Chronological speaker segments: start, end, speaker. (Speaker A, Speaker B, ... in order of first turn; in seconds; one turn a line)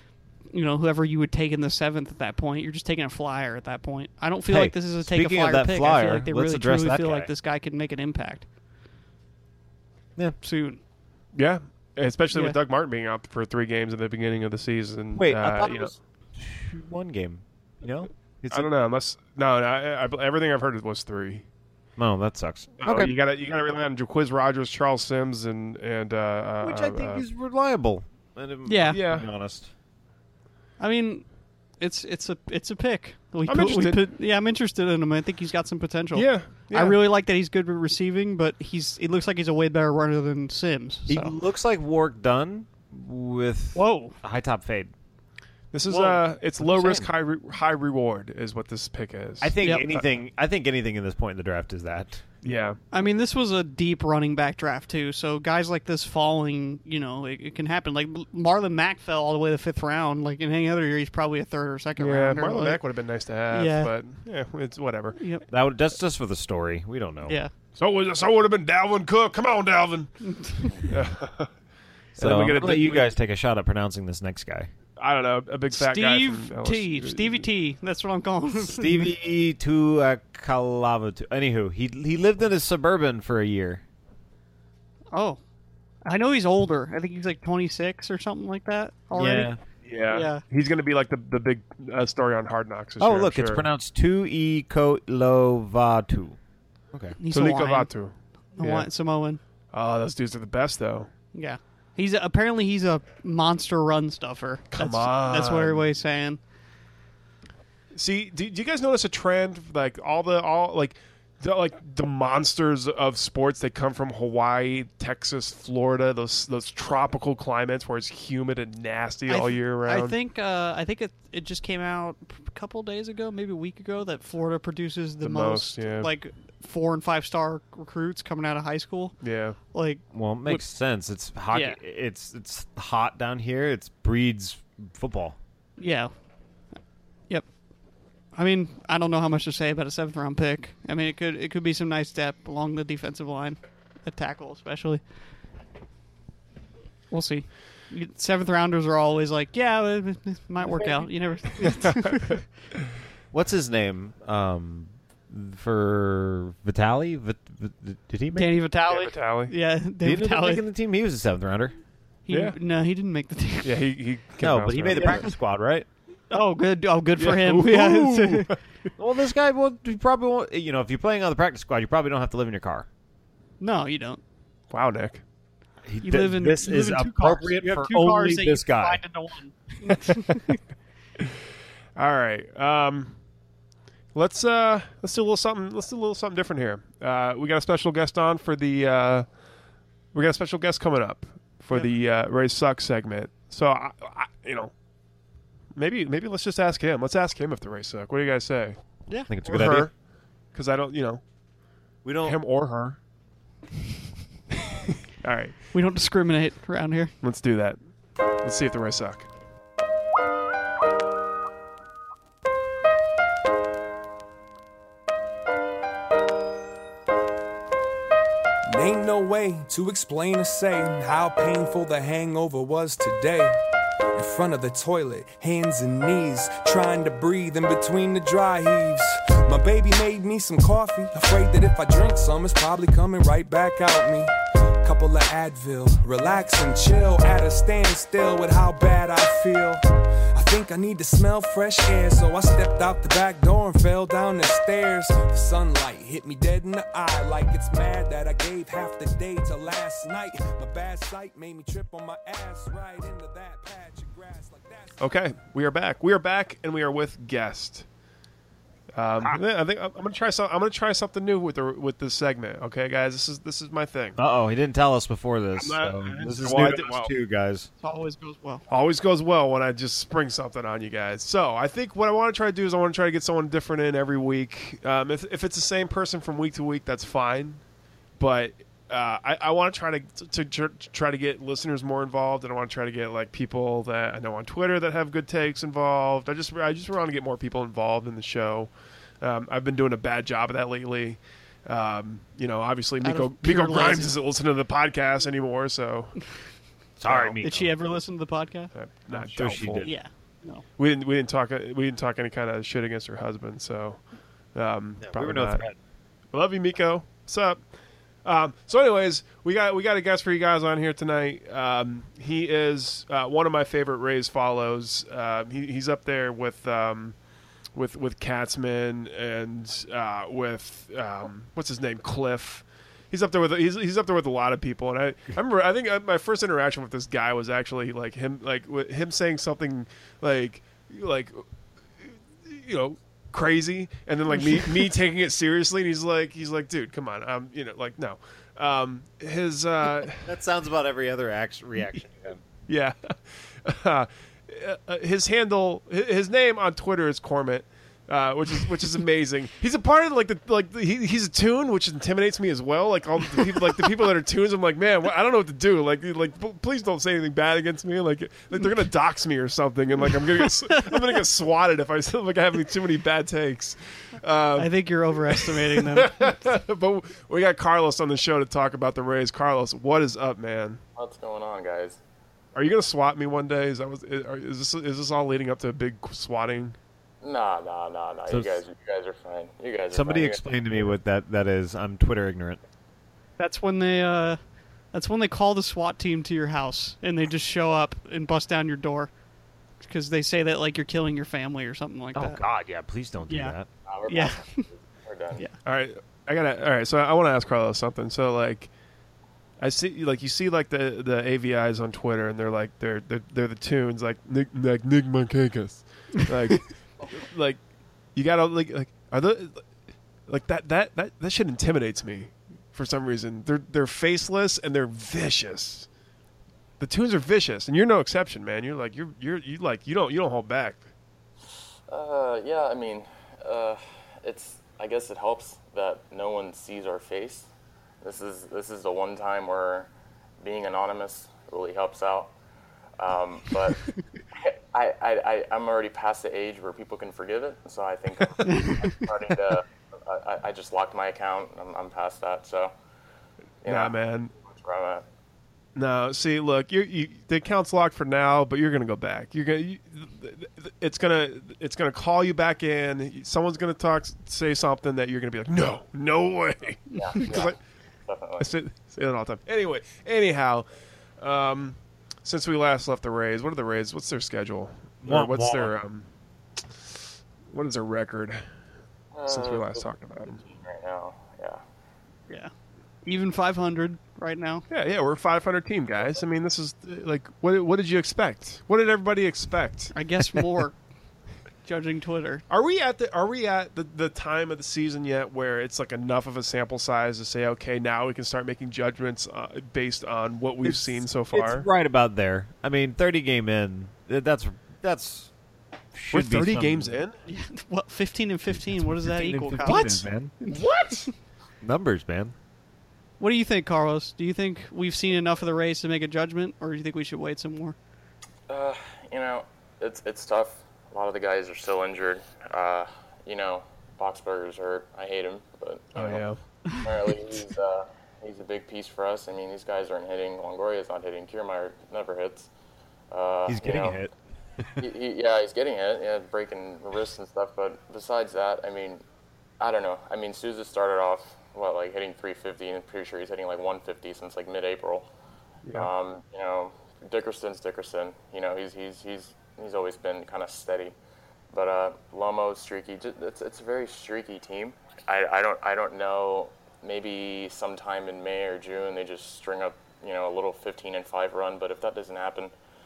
Speaker A: 0.5-8.4
Speaker B: 4.5-7.3
Speaker A: 10.4-10.8
Speaker C: 11.3-15.9
Speaker B: 15.2-18.7
Speaker C: 18.5-21.4
Speaker B: 22.0-23.1
Speaker C: 22.8-27.2
Speaker B: 26.6-29.7
Speaker A: 28.6-29.0
Speaker C: 28.9-29.3
Speaker A: 30.8-31.2
Speaker A: 31.8-41.3
Speaker C: 33.5-34.0
Speaker C: 36.1-37.0
Speaker B: 41.1-44.9
Speaker A: 43.7-44.1
Speaker C: 45.7-50.0
Speaker A: 45.9-46.2
Speaker B: 46.6-47.1
Speaker B: 49.4-52.2
Speaker A: 49.6-49.9
Speaker C: 52.4-52.8
Speaker A: 52.9-62.8
Speaker C: 62.0-65.2
Speaker A: 63.5-63.9
Speaker A: 65.2-65.4
Speaker B: 65.5-67.4
Speaker A: 67.2-67.5
Speaker C: 67.8-70.1
Speaker A: 70.2-70.9
Speaker C: 70.8-71.5
Speaker C: 72.2-73.1
Speaker B: 72.2-74.7
Speaker C: 75.0-77.4
Speaker A: 75.7-79.1
Speaker B: 78.6-83.8
Speaker A: 85.1-85.4
Speaker A: 86.0-89.5
Speaker B: 89.1-89.6
Speaker C: 89.8-93.7
Speaker A: 90.1-90.4
Speaker B: 93.0-96.4
Speaker A: 97.2-97.9
Speaker C: 97.3-98.9
Speaker A: 98.6-99.4
Speaker C: 99.7-101.1
Speaker A: 101.3-106.4
Speaker C: 104.7-105.9
Speaker C: 107.9-120.2
Speaker A: 119.3-129.1
Speaker C: 125.2-126.1
Speaker C: 129.2-129.6
Speaker A: 129.7-130.6
Speaker B: 130.1-135.4
Speaker A: 131.5-131.8
Speaker A: 135.8-136.1
Speaker A: 138.3-145.0
Speaker A: 147.1-152.4
Speaker B: 153.3-158.5
Speaker A: 158.3-160.6
Speaker C: 158.9-159.5
Speaker B: 160.0-161.7
Speaker A: 162.3-163.8
Speaker C: 162.3-162.6
Speaker C: 163.6-165.3
Speaker B: 164.4-165.9
Speaker A: 164.9-165.2
Speaker A: 166.3-168.5
Speaker C: 167.2-168.9
Speaker B: 169.0-172.9
Speaker A: 173.6-174.2
Speaker C: 174.7-175.2
Speaker B: 175.8-179.0
Speaker A: 176.0-180.6
Speaker C: 181.9-183.2
Speaker C: 184.1-189.3
Speaker C: 190.1-194.7
Speaker C: 195.8-198.8
Speaker A: 199.1-199.7
Speaker B: 199.3-199.9
Speaker C: 199.4-199.9
Speaker C: 200.5-201.2
Speaker B: 202.0-202.4
Speaker C: 202.2-203.0
Speaker C: 205.2-205.6
Speaker A: 205.7-207.1
Speaker C: 207.2-207.8
Speaker C: 208.4-209.3
Speaker D: 218.7-223.6
Speaker D: 224.1-239.8
Speaker D: 240.3-255.0
Speaker C: 255.0-257.9
Speaker C: 258.9-264.2
Speaker B: 264.2-267.7
Speaker C: 265.6-267.1
Speaker A: 267.8-268.6
Speaker C: 268.7-277.6
Speaker C: 278.2-288.7
Speaker C: 289.2-296.1
Speaker A: 293.0-294.1
Speaker B: 297.0-297.8
Speaker C: 297.0-297.4
Speaker A: 297.4-298.7
Speaker C: 298.7-299.9
Speaker B: 299.1-299.9
Speaker A: 299.8-300.6
Speaker C: 300.8-304.0
Speaker C: 304.5-305.6
Speaker B: 305.0-305.8
Speaker C: 306.3-307.6
Speaker C: 308.2-317.1
Speaker C: 317.7-331.4
Speaker C: 332.0-340.3
Speaker B: 340.1-342.4
Speaker C: 342.7-364.7
Speaker A: 364.6-366.4
Speaker C: 365.3-370.8
Speaker E: 371.0-372.0
Speaker C: 372.5-376.8
Speaker E: 377.2-380.9
Speaker B: 378.3-378.6
Speaker B: 379.9-382.6
Speaker A: 383.4-384.4
Speaker A: 384.9-389.1
Speaker A: 389.8-392.4
Speaker B: 392.1-393.7
Speaker A: 393.3-393.5
Speaker E: 393.9-395.4
Speaker A: 394.1-394.7
Speaker C: 395.6-398.7
Speaker C: 399.6-407.6
Speaker C: 408.1-409.6
Speaker C: 410.3-415.9
Speaker C: 416.8-420.8
Speaker E: 421.9-427.5
Speaker E: 428.0-429.9
Speaker E: 430.4-432.3
Speaker E: 433.0-442.7
Speaker A: 438.4-438.9
Speaker E: 443.6-445.0
Speaker C: 443.6-444.3
Speaker C: 445.7-457.6
Speaker A: 456.9-457.2
Speaker E: 456.9-457.5
Speaker E: 458.1-458.5
Speaker C: 458.4-460.6
Speaker C: 461.2-466.1
Speaker B: 465.0-465.7
Speaker C: 467.5-468.4
Speaker E: 469.1-471.6
Speaker C: 469.3-470.4
Speaker A: 473.0-474.6
Speaker C: 474.7-479.9
Speaker A: 479.9-480.8
Speaker A: 481.6-482.4
Speaker C: 482.5-491.6
Speaker B: 490.6-495.3
Speaker B: 495.9-497.0
Speaker C: 496.1-497.2
Speaker A: 497.3-501.0
Speaker B: 498.9-500.3
Speaker C: 499.6-499.9
Speaker C: 500.5-501.0
Speaker B: 501.6-502.3
Speaker A: 503.2-507.8
Speaker E: 508.5-516.2
Speaker C: 515.9-516.4
Speaker E: 516.8-522.5
Speaker E: 523.1-524.0
Speaker B: 523.5-524.8
Speaker E: 524.8-529.0
Speaker E: 529.6-535.1
Speaker C: 535.6-535.9
Speaker E: 535.7-540.9
Speaker E: 541.5-552.5